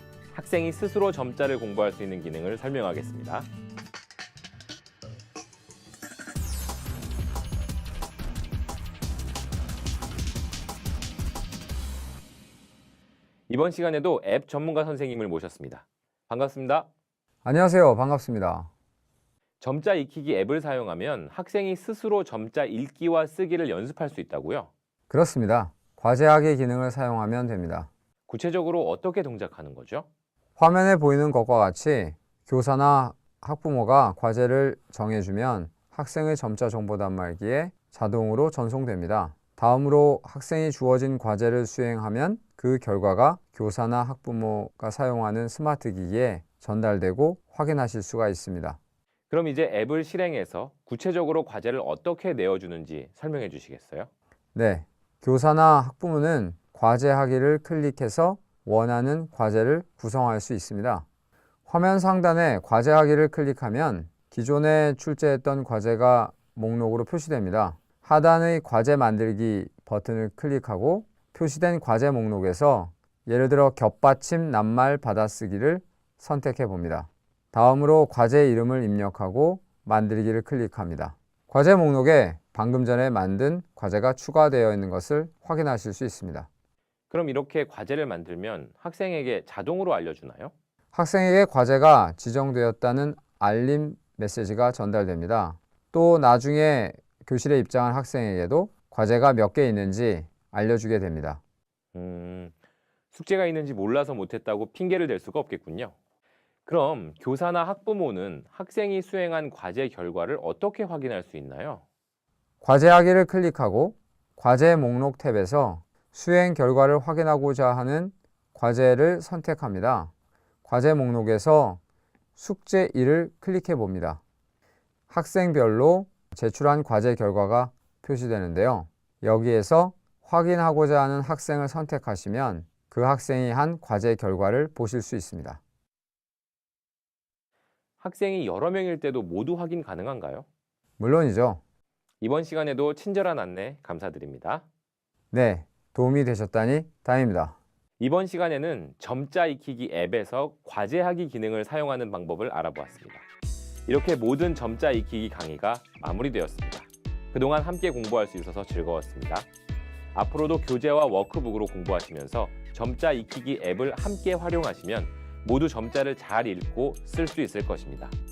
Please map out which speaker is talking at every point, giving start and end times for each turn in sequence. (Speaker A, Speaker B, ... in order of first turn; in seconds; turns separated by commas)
Speaker A: 0.3-3.5, Speaker A: 13.5-16.9, Speaker B: 17.4-18.7, Speaker A: 19.6-24.7, Speaker B: 25.1-27.9, Speaker A: 28.3-30.1, Speaker B: 30.6-48.8, Speaker A: 49.3-54.1, Speaker B: 54.5-61.0, Speaker B: 61.7-86.5, Speaker A: 87.1-90.5, Speaker B: 90.9-101.4, Speaker A: 101.9-102.5, Speaker A: 103.1-106.0, Speaker A: 106.7-111.8, Speaker B: 112.6-120.1, Speaker B: 120.7-121.8, Speaker B: 122.4-124.2, Speaker B: 125.1-135.6, Speaker A: 138.0-140.5, Speaker B: 141.0-141.6, Speaker A: 142.2-144.7, Speaker B: 145.3-147.6, Speaker A: 148.0-153.3, Speaker A: 153.9-159.5, Speaker A: 160.1-168.2